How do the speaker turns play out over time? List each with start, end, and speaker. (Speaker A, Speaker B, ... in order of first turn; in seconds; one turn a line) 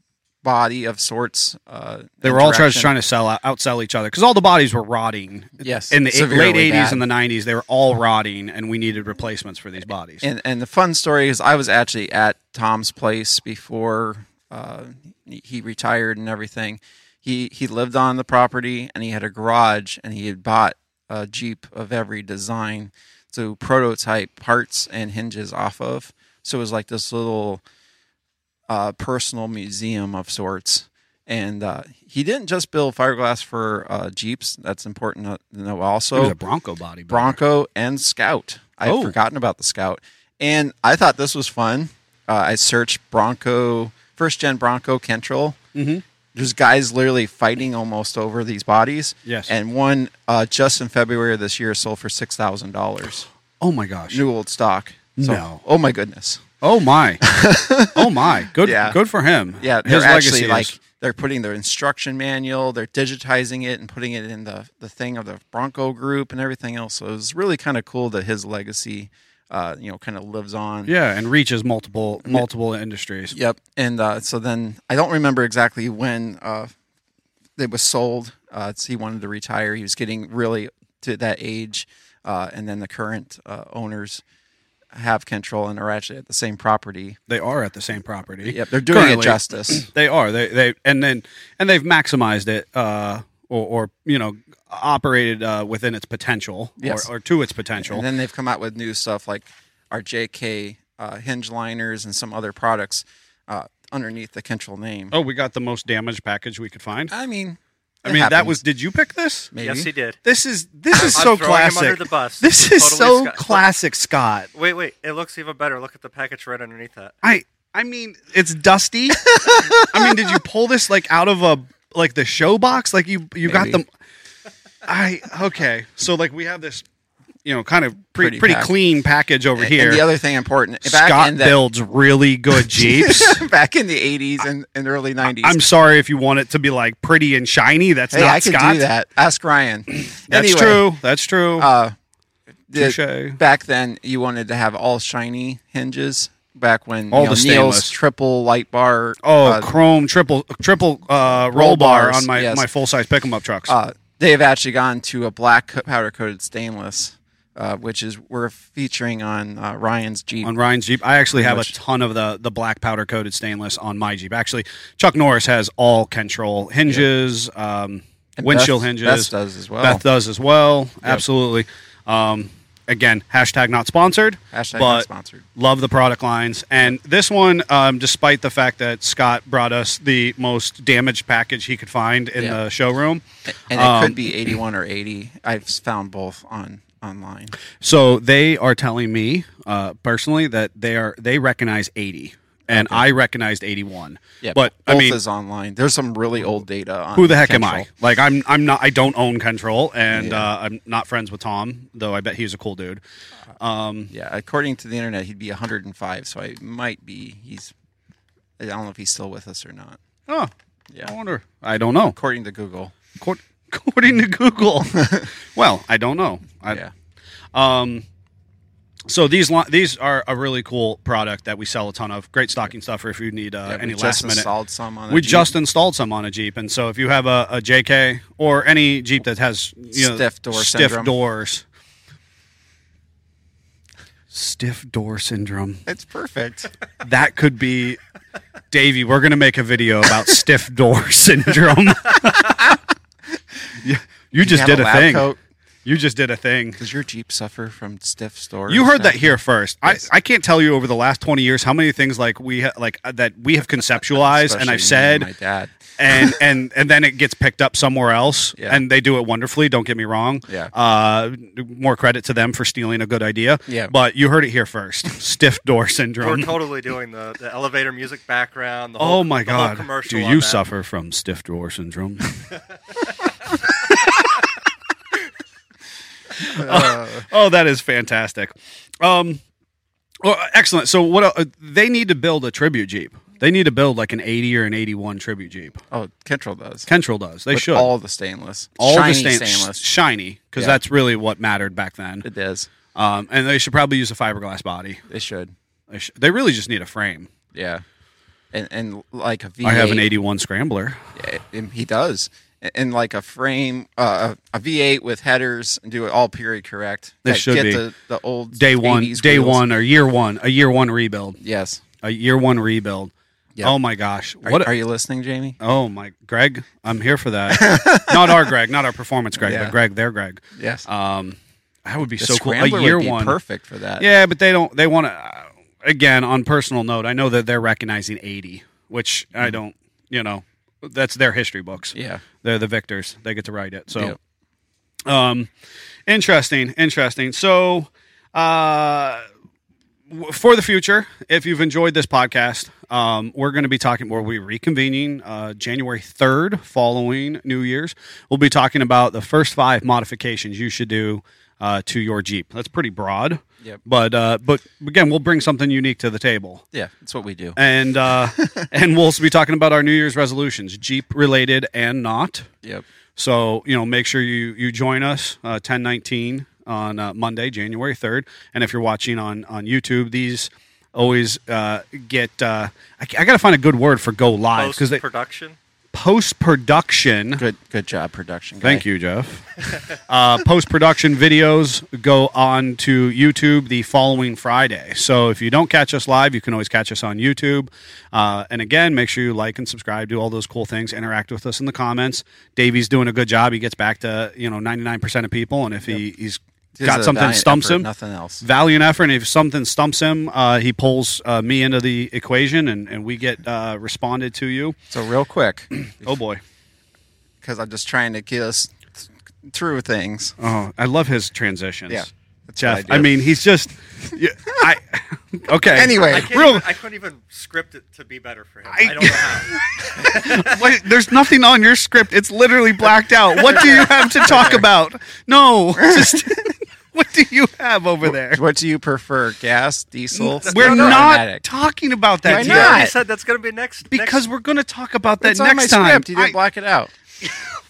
Speaker A: 0.4-2.9
Speaker B: 2.2-10.2
Speaker A: 5.6-7.0
Speaker A: 10.2-27.6
Speaker A: 28.7-36.4
Speaker B: 36.1-37.4
Speaker A: 37.1-45.6
Speaker B: 38.8-39.1
Speaker B: 45.7-46.0
Speaker A: 46.3-53.3
Speaker B: 49.2-49.5
Speaker B: 53.6-54.2
Speaker A: 54.1-56.4
Speaker B: 55.2-55.6
Speaker B: 56.6-57.2
Speaker A: 57.2-59.0
Speaker B: 57.9-60.8
Speaker A: 59.6-70.9
Speaker B: 70.9-73.3
Speaker A: 73.3-76.7
Speaker A: 77.6-84.2
Speaker A: 84.9-87.2
Speaker B: 87.3-98.0
Speaker A: 88.4-89.9
Speaker A: 96.8-97.1
Speaker A: 97.8-105.1
Speaker B: 105.1-107.1
Speaker A: 107.1-108.6
Speaker B: 108.0-109.5
Speaker A: 109.5-109.9
Speaker C: 109.6-110.2
Speaker B: 110.2-114.5
Speaker C: 110.9-113.6
Speaker C: 114.5-117.1
Speaker B: 117.2-123.9
Speaker A: 119.4-120.1
Speaker A: 123.4-123.8
Speaker B: 124.8-126.8
Speaker B: 127.4-130.0
Speaker A: 128.2-128.7
Speaker A: 129.6-131.6
Speaker B: 130.8-133.4
Speaker A: 132.7-135.6
Speaker B: 135.3-138.8
Speaker A: 138.1-140.9
Speaker B: 140.3-141.7
Speaker A: 141.6-141.9
Speaker A: 142.7-149.7
Speaker B: 142.7-143.4
Speaker B: 147.1-147.9
Speaker B: 149.2-153.7
Speaker A: 151.3-152.7
Speaker A: 153.7-160.5
Speaker B: 160.4-184.5
Speaker A: 161.3-161.7
Speaker A: 168.4-170.0
Speaker A: 174.5-175.4
Speaker A: 183.5-187.6
Speaker B: 187.8-195.2
Speaker A: 192.7-193.0
Speaker A: 194.4-197.9
Speaker B: 197.2-203.0
Speaker A: 200.1-200.5
Speaker B: 203.6-204.1
Speaker A: 204.1-207.7
Speaker A: 208.6-210.0
Speaker B: 211.0-212.2
Speaker A: 212.1-212.9
Speaker B: 213.2-216.8
Speaker A: 215.0-215.2
Speaker B: 217.5-218.0
Speaker B: 219.1-224.5
Speaker A: 223.7-225.5
Speaker B: 225.1-231.6
Speaker A: 229.9-231.1
Speaker B: 234.3-235.8
Speaker A: 235.8-236.7
Speaker B: 237.0-238.0
Speaker B: 238.7-242.7
Speaker B: 243.8-245.3
Speaker A: 244.4-245.4
Speaker B: 245.8-246.8
Speaker A: 246.8-249.3
Speaker B: 248.7-255.3
Speaker A: 254.1-256.3
Speaker B: 256.0-266.5
Speaker A: 258.6-258.8
Speaker A: 260.5-260.7
Speaker A: 263.7-263.9
Speaker C: 266.2-270.6
Speaker B: 269.0-272.3
Speaker B: 276.4-279.4
Speaker A: 276.4-277.3
Speaker B: 280.2-285.8
Speaker A: 285.9-286.9
Speaker B: 286.9-287.9
Speaker A: 287.5-289.8
Speaker B: 288.8-292.2
Speaker A: 292.2-292.7
Speaker B: 292.9-295.0
Speaker A: 295.1-295.5
Speaker B: 295.9-297.3
Speaker A: 297.5-297.8
Speaker A: 298.5-300.1
Speaker B: 299.6-301.0
Speaker A: 301.1-309.6
Speaker B: 307.2-307.8
Speaker B: 308.5-311.4
Speaker A: 311.4-311.8
Speaker B: 312.0-313.1
Speaker B: 313.6-314.7
Speaker A: 314.4-315.6
Speaker B: 315.6-323.4
Speaker A: 317.5-318.4
Speaker A: 319.4-319.7
Speaker A: 320.6-320.9
Speaker A: 322.2-324.1
Speaker B: 324.0-334.1
Speaker A: 331.9-332.2
Speaker B: 335.1-335.5
Speaker B: 336.1-339.2
Speaker B: 340.1-356.6
Speaker A: 356.7-357.6
Speaker B: 357.6-362.5
Speaker A: 358.4-358.7
Speaker B: 363.1-375.0
Speaker C: 374.5-375.6
Speaker B: 375.9-377.4
Speaker A: 377.4-378.8
Speaker B: 378.6-397.9
Speaker A: 396.8-398.4
Speaker B: 398.4-404.8
Speaker A: 404.9-406.2
Speaker B: 406.0-406.4
Speaker A: 407.4-408.9
Speaker A: 409.5-410.3
Speaker B: 410.4-416.6
Speaker A: 411.9-413.1
Speaker A: 415.7-416.3
Speaker C: 416.0-420.6
Speaker B: 418.7-428.4
Speaker A: 423.4-424.6
Speaker C: 423.5-423.9
Speaker A: 425.8-426.1
Speaker A: 428.1-431.4
Speaker B: 430.1-432.9
Speaker C: 430.4-431.0
Speaker A: 432.2-432.9
Speaker C: 432.2-434.2
Speaker B: 433.9-436.4
Speaker A: 435.2-436.9